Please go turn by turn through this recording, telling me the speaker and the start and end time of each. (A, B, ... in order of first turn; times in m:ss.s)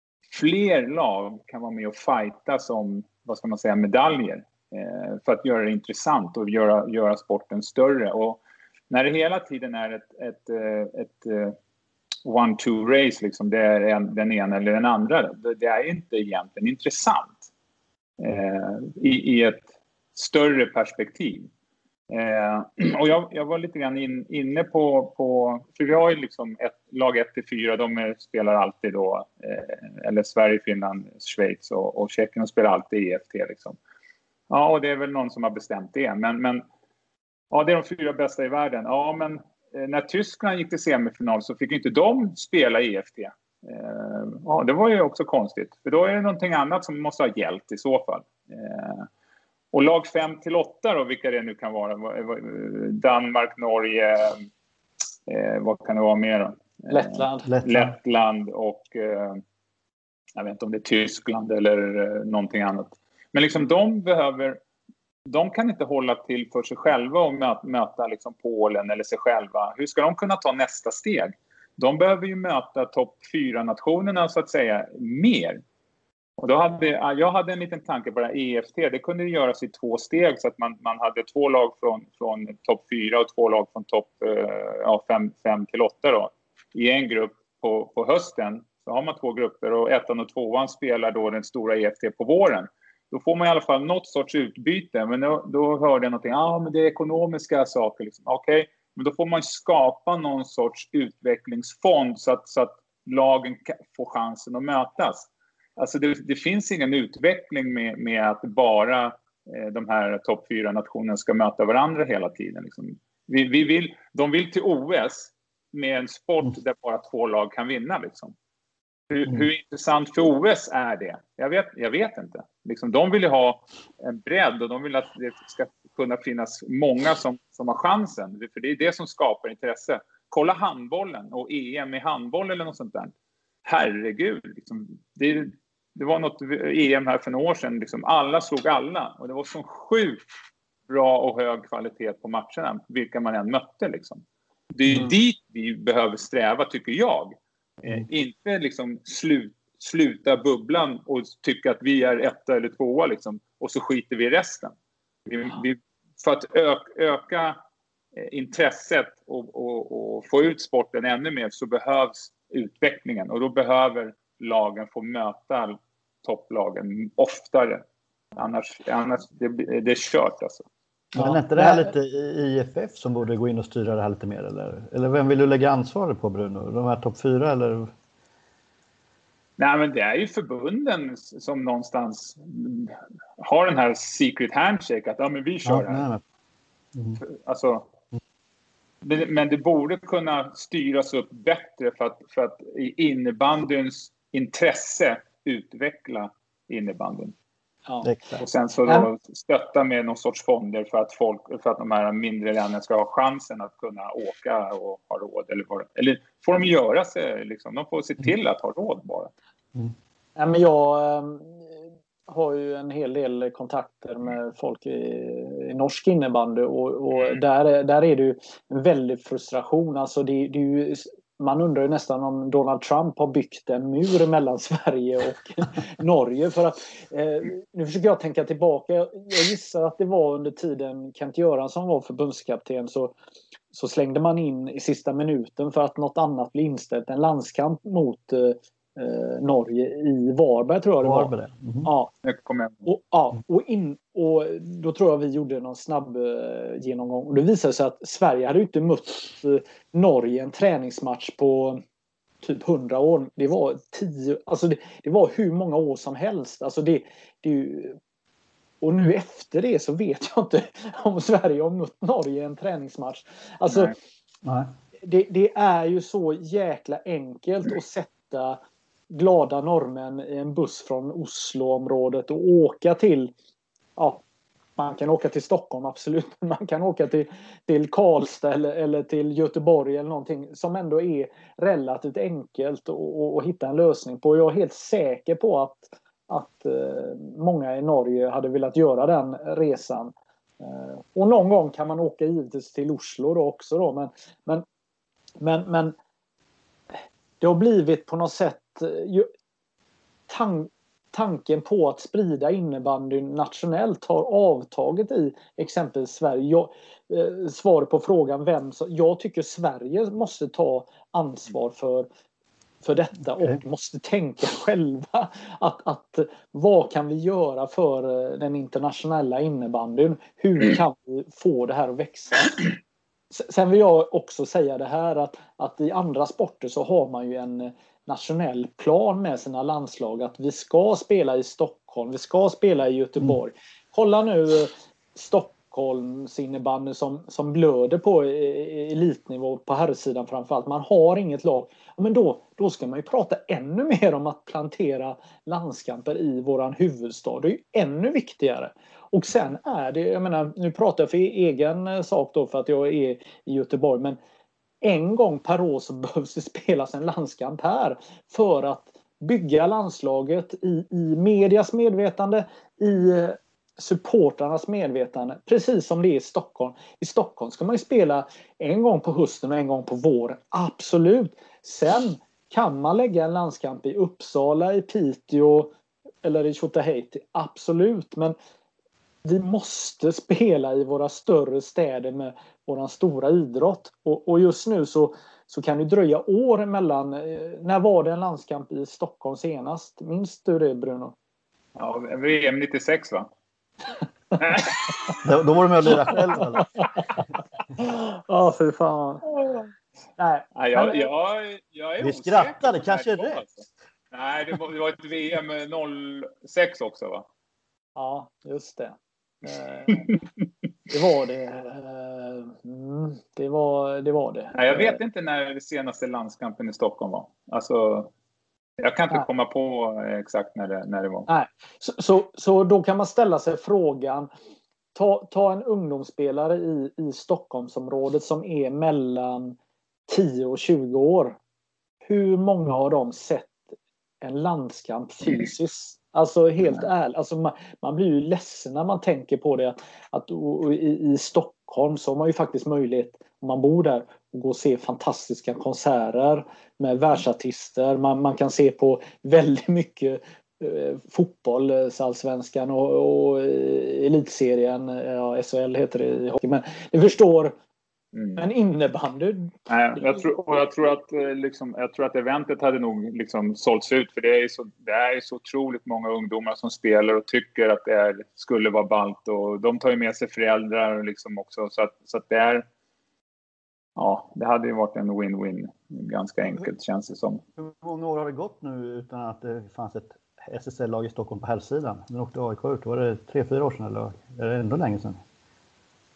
0:00.3-0:11.6 A
0:12.2-0:17.4 A
0:18.2-0:21.5 A
0:22.1-0:33.8 A
0:34.5-0:36.6 A
0:37.5-0:49.1 A
0:49.7-0:54.5 A
0:55.3-0:59.4 A
0:56.9-0:57.5 B
0:57.5-0:57.9 C
1:00.4-1:04.6 A
1:05.3-1:15.6 A
1:16.4-1:58.3 A
1:59.1-2:13.1 A
2:13.7-2:20.2 A
2:20.9-2:24.2 A
2:24.8-2:34.7 A
2:35.3-2:37.6 A
2:38.2-2:47.8 A
2:48.4-2:50.6 A
2:51.2-2:51.9 B
2:51.2-2:57.9 C
2:59.6-3:06.0 A
3:05.6-3:06.2 C
3:07.0-3:07.2 C
3:07.2-3:07.9 A
3:09.0-3:17.3 A
3:17.9-3:19.1 B
3:18.0-3:18.4 C
3:18.4-3:29.3 A
3:30.4-3:31.7 B
3:32.3-3:53.2 B
3:53.7-4:01.3 B
4:01.0-4:01.9 C
4:01.8-4:02.1 B
4:02.2-4:02.8 A
4:02.8-4:11.8 B
4:12.4-4:18.0 B
4:18.8-4:23.9 B
4:23.7-4:23.9 A
4:24.4-4:24.7 C
4:25.0-4:28.6 B
4:29.1-4:33.3 B
4:34.0-4:34.2 B
4:34.8-4:54.6 B
4:55.4-4:56.0 B
4:57.4-4:59.3 B
5:00.3-5:12.1 B
5:12.8-5:22.7 B
5:23.3-5:54.2 B
5:54.8-6:15.7 B
6:16.2-6:18.4 B
6:19.2-6:31.2 B
6:31.8-6:33.3 A
6:34.4-6:35.2 A
6:35.2-6:36.7 C
6:36.1-6:37.0 B
6:37.8-6:39.4 B
6:40.2-6:41.1 B
6:40.6-6:47.3 A
6:42.0-6:43.4 C
6:48.0-6:50.2 B
6:50.9-6:55.0 B
6:54.5-6:58.1 A
6:58.8-7:01.3 A
7:01.3-7:04.3 B
7:05.0-7:09.6 B
7:10.1-7:11.4 B
7:12.1-7:13.6 B
7:14.2-7:37.6 B
7:38.1-7:38.4 A
7:38.4-7:39.5 B
7:39.7-7:52.7 A
7:54.0-7:57.4 A
7:57.6-8:05.2 C